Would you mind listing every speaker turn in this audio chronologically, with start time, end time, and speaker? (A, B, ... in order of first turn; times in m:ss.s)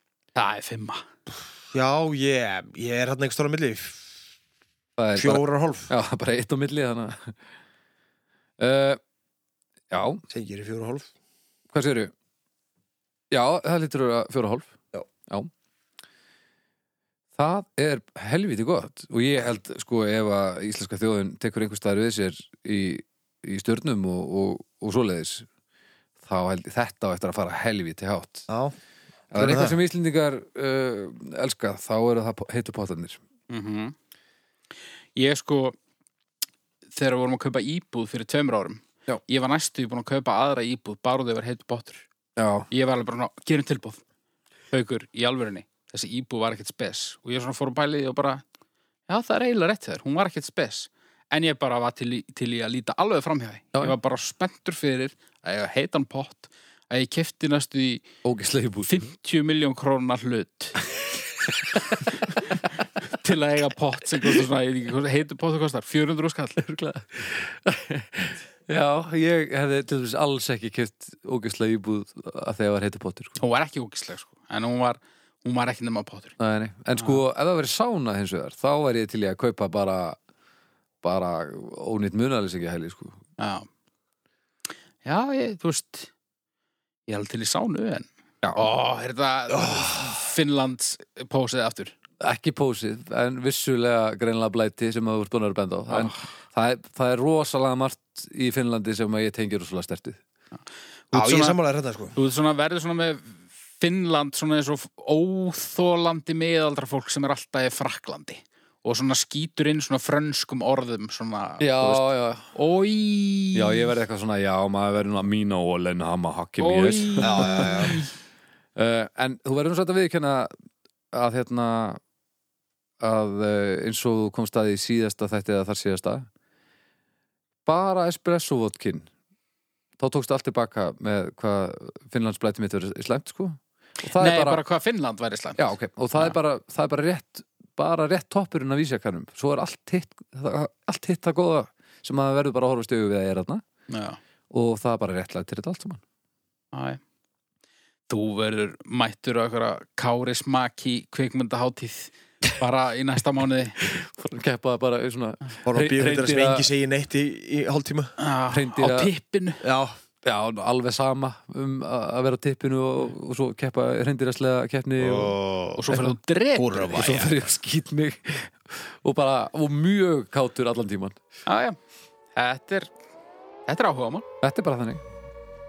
0:00.4-0:01.0 A
0:01.7-0:04.1 B
0:05.0-0:07.4 C
0:05.2-0:05.9 B
0:08.6-0:09.0 C
0:09.9-0:10.2 C
0:10.3-0:11.1 B
0:11.7-0:12.1 C
0:13.3-0:14.8 C
0:17.4-0:25.5 C
0:26.2-0:28.5 C
0:28.5-0:28.8 B
0:29.3-0:33.2 C
0:29.3-0:29.8 B
0:33.5-0:33.9 A
0:35.2-0:35.8 A
0:37.0-0:42.1 A
0:42.4-0:42.7 C
0:42.7-0:44.0 A
0:44.7-0:48.4 A
0:49.1-0:58.0 A
0:58.2-0:59.0 C
0:58.9-1:00.8 A
1:01.5-1:02.1 C
1:02.0-1:06.6 A
1:06.6-1:13.4 C
1:13.4-1:16.4 A
1:16.4-1:20.2 C
1:21.0-1:23.2 C
1:23.4-1:23.7 A
1:25.0-1:26.1 A
1:27.1-1:32.0 A
1:32.2-1:40.2 C
1:35.9-1:36.2 A
1:41.1-1:41.6 A
1:41.1-1:42.2 B
1:42.2-1:53.9 A
1:51.6-1:52.5 C
1:53.6-1:58.0 C
1:56.6-1:58.1 A
1:57.2-1:58.0 B
1:58.8-2:00.5 C
2:01.1-2:02.0 C
2:03.0-2:06.3 C
2:07.7-2:09.1 C
2:10.0-2:14.6 C
2:14.0-2:16.4 A
2:15.6-2:23.6 C
2:23.9-2:24.2 A
2:24.5-2:26.0 C
2:26.7-2:27.0 A
2:28.1-2:33.8 A
2:33.8-2:36.7 C
2:35.7-2:38.1 B
2:38.2-2:39.6 A
2:38.5-2:39.1 C
2:39.6-2:40.0 B
2:40.2-2:45.4 C
2:45.0-2:45.8 B
2:45.8-2:47.2 A
2:45.9-2:46.2 C
2:46.6-2:47.3 B
2:46.9-2:51.2 C
2:51.5-2:51.8 A
2:52.4-2:52.9 A
2:53.7-2:54.2 A
2:54.4-2:55.0 C